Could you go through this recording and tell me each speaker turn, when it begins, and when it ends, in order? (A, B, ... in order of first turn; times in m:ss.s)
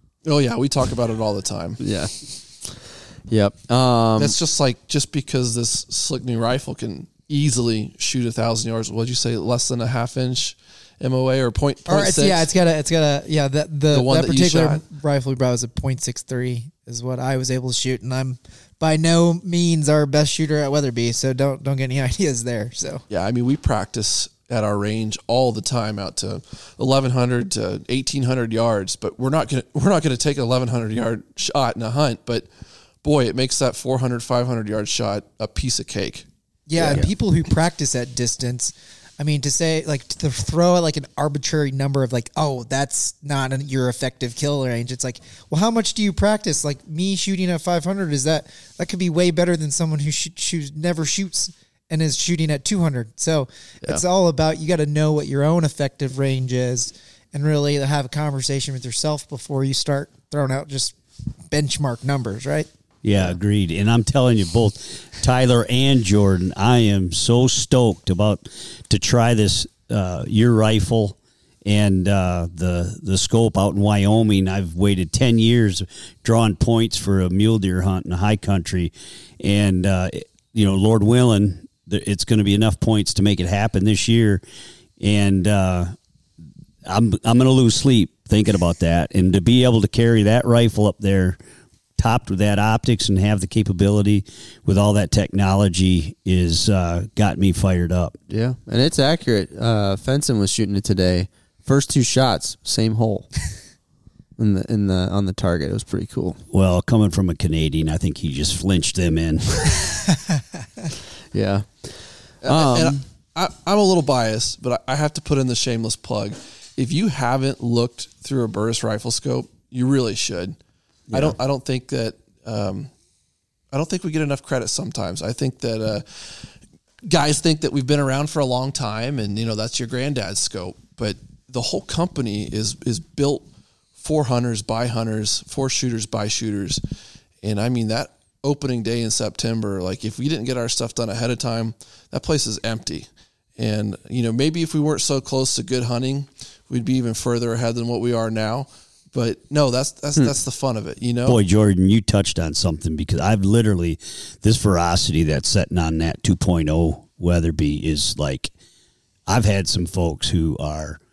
0:00.2-0:01.8 A
0:01.8-0:04.3 B
0:04.2-0:12.5 A
0:11.9-0:23.0 C
0:13.9-0:14.8 A
0:23.1-0:32.5 A
0:33.0-0:36.2 A
0:36.7-1:01.0 C
0:36.8-0:37.1 A
1:01.5-1:02.7 C
1:03.0-1:24.4 D
1:25.0-1:25.9 D
1:26.8-1:31.4 D
1:32.0-1:38.2 D
1:38.3-1:43.3 B
1:44.4-1:46.4 B
1:46.5-1:49.8 D
1:51.3-1:53.0 B
1:52.4-2:00.6 A
2:01.1-2:01.4 B
2:01.1-2:02.9 A
2:03.7-2:06.5 A
2:07.0-2:13.4 A
2:14.0-2:16.8 A
2:17.4-2:31.4 A
2:31.2-2:38.5 D
2:39.3-2:41.0 D